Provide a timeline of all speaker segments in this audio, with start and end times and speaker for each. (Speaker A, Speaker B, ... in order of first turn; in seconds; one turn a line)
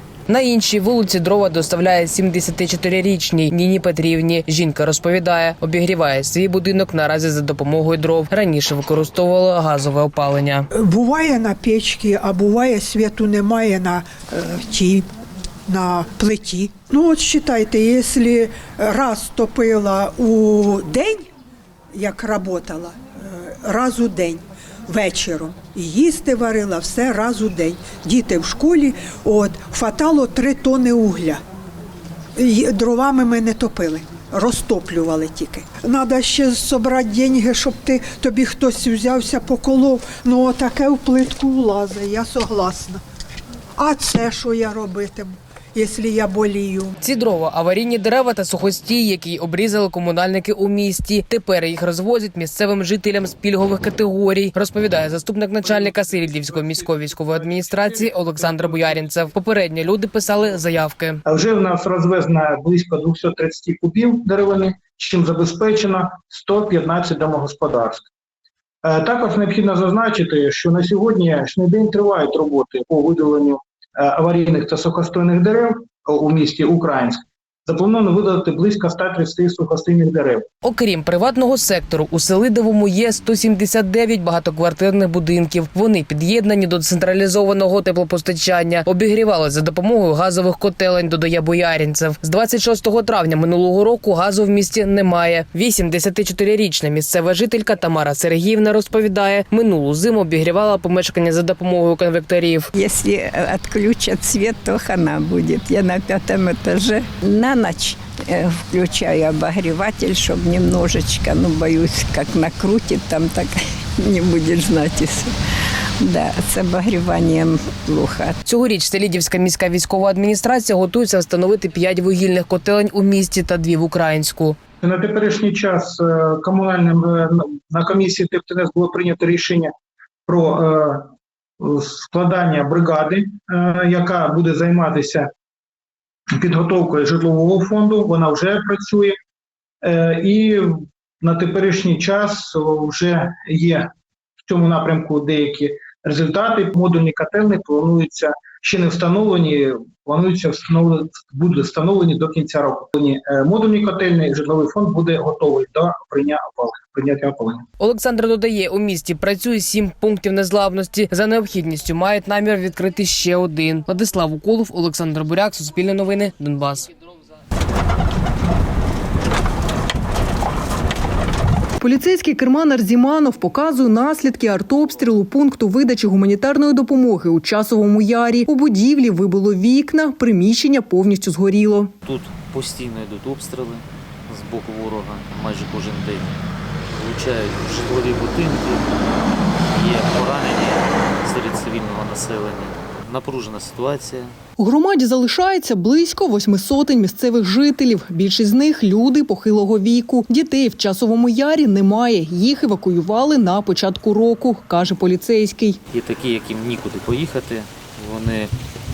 Speaker A: 0.3-10.7
Speaker B: 10.7-15.0
Speaker B: 15.7-21.2
Speaker B: 21.9-31.4
Speaker B: 32.4-43.0
Speaker B: 43.8-46.9
Speaker A: 47.0-61.2
Speaker C: 55.6-59.1
Speaker C: 61.3-68.1
Speaker C: 68.8-80.4
Speaker A: 80.6-102.7
Speaker D: 102.7-115.3
Speaker D: 116.0-118.4
Speaker A: 118.5-124.6
Speaker C: 124.8-129.7
Speaker C: 130.3-131.0
Speaker C: 131.6-135.2
Speaker C: 136.4-139.1
Speaker C: 139.8-143.8
Speaker C: 144.5-157.6
Speaker A: 157.8-166.9
Speaker E: 171.8-181.9
Speaker F: 182.0-186.3
Speaker F: 186.9-188.9
Speaker F: 189.7-194.3
Speaker E: 194.6-205.8
Speaker F: 205.9-208.5